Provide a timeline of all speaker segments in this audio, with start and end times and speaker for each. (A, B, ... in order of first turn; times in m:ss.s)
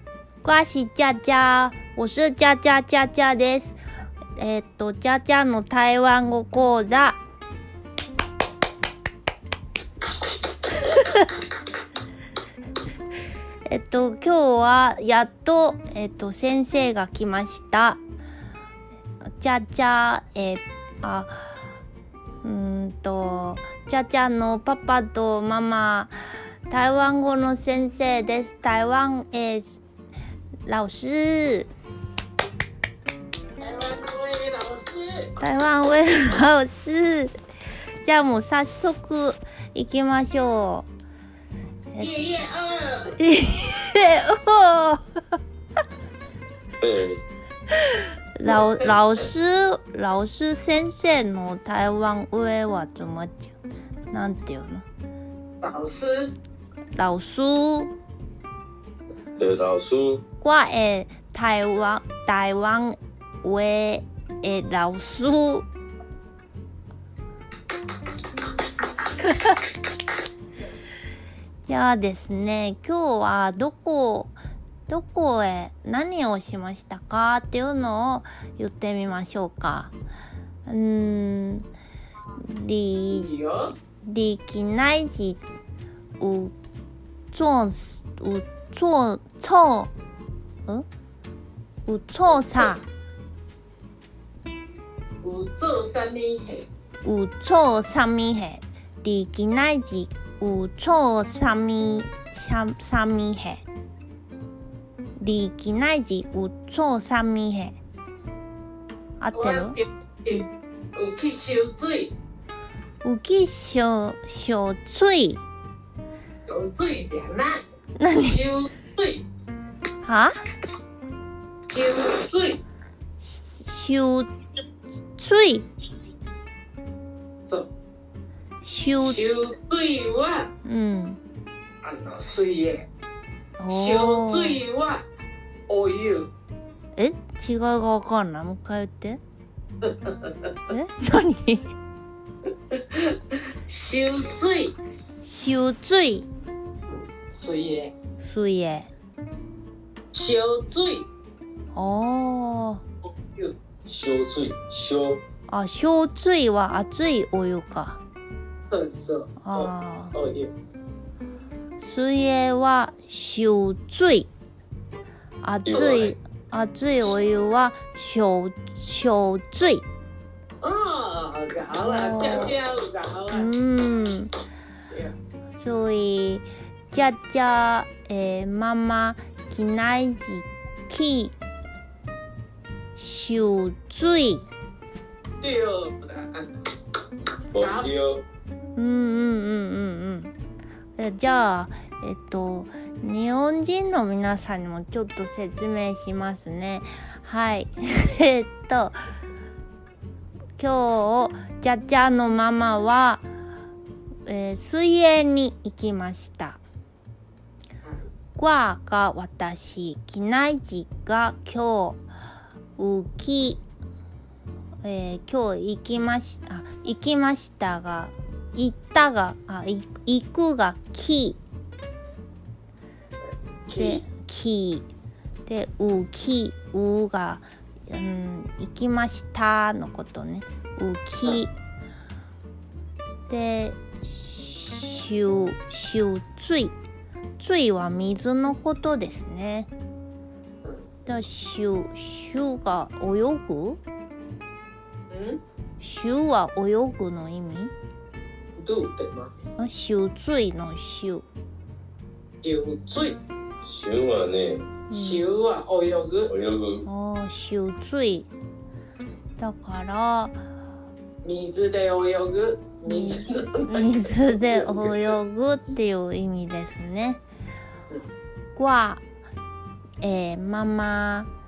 0:00.4-0:03.8 A
0:04.4-0:07.2 A
0:10.8-0:11.2 A
0:13.7-0:18.0 A
0:19.3-0:21.5 A
0:22.4-0:26.2 A
0:26.7-0:29.8 A
0:30.7-0:31.7 A
0:33.6-0:35.3 B
0:35.4-0:37.3 A
0:38.0-0:40.9 A
0:42.0-0:43.2 B
0:43.2-0:45.0 A
0:46.8-0:47.2 C
0:47.8-0:53.6 A
0:54.1-0:54.9 A
0:55.6-0:56.3 B
0:57.0-0:57.9 A
0:59.4-1:00.2 C
1:00.4-1:05.7 A
1:11.7-1:14.4 A
1:14.9-1:20.0 A
1:20.7-1:21.7 A
1:22.4-1:23.3 A
1:23.1-1:23.7 B
1:24.0-1:25.4 A
1:26.2-1:26.5 A
1:27.3-1:29.9 A
1:31.9-1:32.8 A
1:35.2-1:36.7 B
1:37.0-1:43.6 A
1:45.2-1:47.8 A
1:49.2-1:49.8 A
1:49.3-1:52.1 B
1:53.0-1:55.4 A
1:56.5-1:57.6 B
1:58.0-1:58.4 A
1:58.2-1:59.2 B
2:00.0-2:00.4 A
2:01.7-2:02.6 B
2:03.2-2:04.3 A
2:05.2-2:05.7 A
2:07.4-2:07.7 B
2:08.6-2:09.2 A
2:09.0-2:10.5 B
2:10.6-2:11.2 A
2:11.8-2:12.9 B
2:13.6-2:14.6 A
2:13.7-2:15.0 B
2:15.7-2:16.3 B
2:17.0-2:19.2 A
2:19.8-2:20.5 B
2:20.7-2:21.7 A
2:22.7-2:24.8 B
2:25.2-2:26.3 A
2:27.3-2:27.9 B
2:28.2-2:28.9 A
2:30.1-2:31.1 B
2:31.7-2:32.8 A
2:33.9-2:35.2 C
2:35.5-2:38.0 A
2:38.7-2:40.5 B
2:39.4-2:40.1 A
2:41.8-2:44.3 A
2:45.4-2:49.9 A
2:45.7-2:46.2 C
2:50.6-2:53.5 B
2:51.8-2:52.6 A
2:53.3-2:54.3 A
2:54.9-2:55.2 B
2:55.5-3:01.4 A
3:03.0-3:04.5 A
3:05.4-3:06.5 B
3:07.5-3:08.2 C
3:07.6-3:07.9 B
3:08.8-3:10.4 A
3:11.0-3:19.0 A
3:20.6-3:23.2 A
3:24.3-3:26.6 A
3:28.4-3:32.0 A
3:32.8-3:33.6 A
3:34.8-3:41.4 A
3:43.2-3:44.0 B
3:43.8-3:44.9 A
3:45.5-3:51.5 A
3:53.3-3:56.8 A
3:57.4-3:59.7 A
4:01.0-4:03.8 A
4:05.1-4:05.4 B
4:05.8-4:07.7 A
4:08.6-4:09.4 B
4:09.6-4:11.2 A
4:12.4-4:13.2 B
4:13.6-4:14.7 C
4:14.9-4:15.3 A
4:14.9-4:16.3 B
4:16.3-4:16.9 C
4:16.8-4:18.3 A
4:19.4-4:20.4 A
4:21.2-4:23.9 B
4:22.9-4:27.2 A
4:24.5-4:25.0 B
4:28.6-4:29.0 A
4:30.0-4:31.3 A